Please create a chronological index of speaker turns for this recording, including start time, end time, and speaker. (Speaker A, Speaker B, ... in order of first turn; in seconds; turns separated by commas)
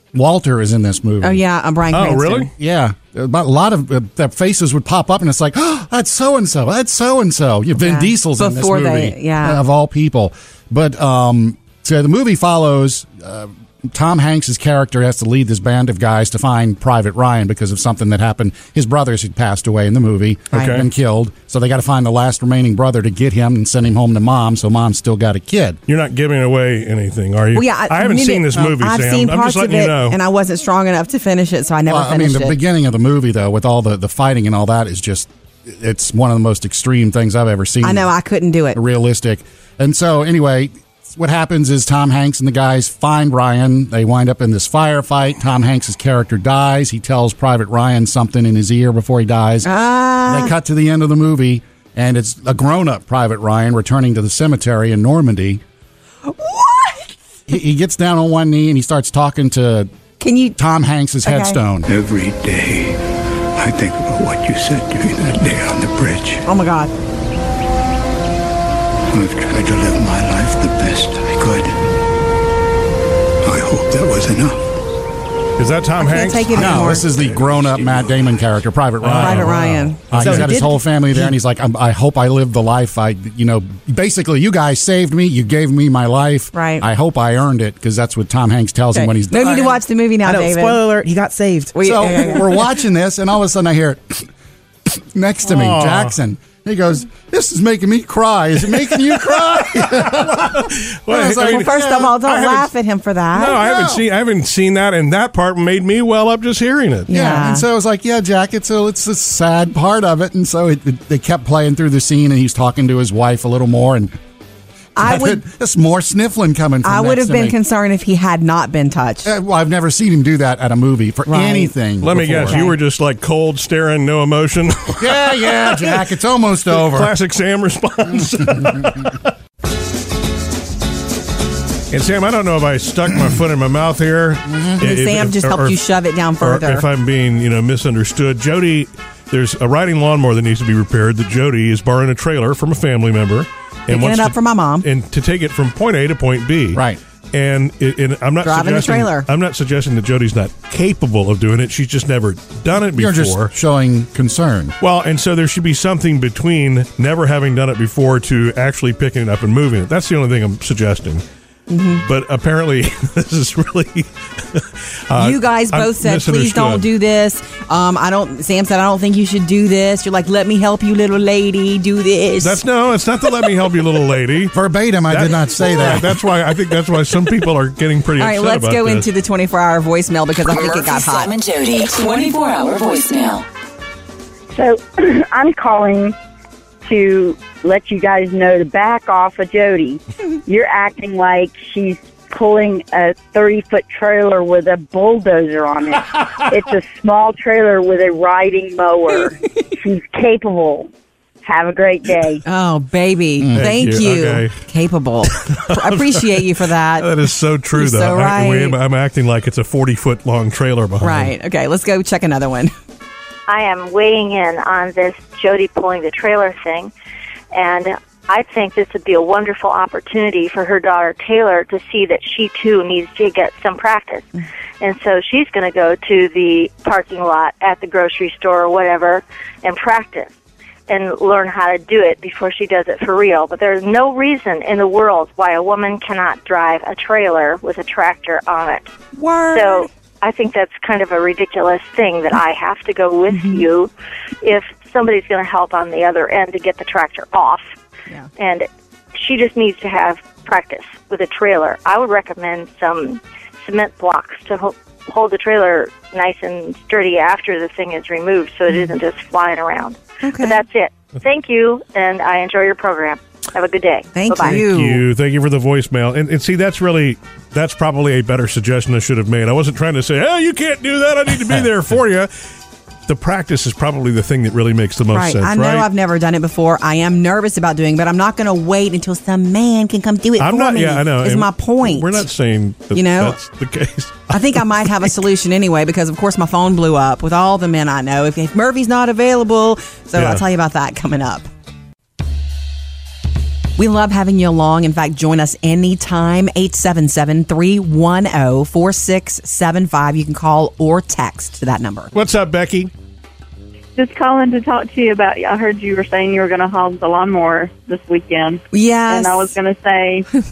Speaker A: 0.1-1.4, Speaker B: 1.2-2.5, Speaker C: 1.9-2.5, Speaker A: 2.6-25.8, Speaker B: 7.8-9.6, Speaker C: 20.5-20.9, Speaker C: 25.9-30.2, Speaker B: 27.5-32.6, Speaker A: 31.9-38.1, Speaker B: 37.8-38.8, Speaker A: 38.7-49.7, Speaker B: 49.6-50.5, Speaker A: 50.3-55.6, Speaker B: 56.3-57.1, Speaker A: 57.5-59.9, Speaker B: 60.2-60.6, Speaker A: 60.6-61.9, Speaker B: 61.2-61.6, Speaker D: 61.9-63.0, Speaker D: 63.6-66.4, Speaker B: 66.5-66.9, Speaker D: 69.1-71.7, Speaker D: 73.5-74.6, Speaker C: 75.6-76.8, Speaker B: 76.0-77.0, Speaker A: 76.5-89.8, Speaker C: 79.0-80.6, Speaker B: 79.2-80.0, Speaker E: 80.2-80.8, Speaker B: 86.5-86.8, Speaker B: 88.9-90.8, Speaker E: 90.2-91.8, Speaker B: 91.7-92.6, Speaker A: 91.8-94.3, Speaker A: 94.9-102.1, Speaker C: 95.5-96.1, Speaker C: 98.8-102.7, Speaker B: 101.2-103.6, Speaker C: 103.3-107.1, Speaker A: 103.6-104.0, Speaker B: 107.1-107.7, Speaker A: 107.1-114.2, Speaker B: 115.0-115.4, Speaker A: 115.0-117.6, Speaker B: 116.8-119.3, Speaker A: 119.2-122.6, Speaker B: 121.3-121.8, Speaker C: 122.0-126.1, Speaker B: 122.5-122.8, Speaker A: 125.0-127.1, Speaker C: 126.7-129.3, Speaker A: 128.5-128.9, Speaker C: 131.9-135.8, Speaker A: 134.5-134.8, Speaker B: 134.8-136.8, Speaker C: 136.4-146.8, Speaker B: 143.9-144.9, Speaker A: 146.7-147.0, Speaker C: 147.3-153.5, Speaker B: 148.4-149.3, Speaker A: 153.0-154.7, Speaker C: 154.8-161.2, Speaker B: 161.7-162.0, Speaker C: 162.0-166.8, Speaker B: 165.2-172.6, Speaker C: 172.4-174.6, Speaker A: 174.5-176.2, Speaker C: 175.1-179.1, Speaker B: 178.2-181.3, Speaker F: 180.5-183.5, Speaker G: 184.5-186.2, Speaker G: 186.8-200.9, Speaker G: 201.4-202.4, Speaker B: 202.4-207.1, Speaker A: 203.4-203.7, Speaker C: 203.6-204.6, Speaker C: 205.3-206.4, Speaker C: 207.0-211.3, Speaker B: 207.7-208.8, Speaker B: 211.0-212.7, Speaker H: 213.5-216.9, Speaker H: 217.5-230.3, Speaker H: 230.9-238.9, Speaker B: 239.2-239.9, Speaker H: 239.5-243.9, Speaker B: 243.3-243.6, Speaker H: 244.4-247.7, Speaker H: 248.4-264.6, Speaker B: 260.2-260.6, Speaker B: 264.1-265.0, Speaker C: 264.4-272.3, Speaker C: 273.1-275.9, Speaker B: 275.1-282.3, Speaker C: 280.4-285.1, Speaker B: 282.9-283.4, Speaker B: 284.3-291.5, Speaker C: 290.2-290.4, Speaker B: 293.8-302.1, Speaker C: 302.1-302.9, Speaker I: 304.0-310.3, Speaker B: 308.7-309.5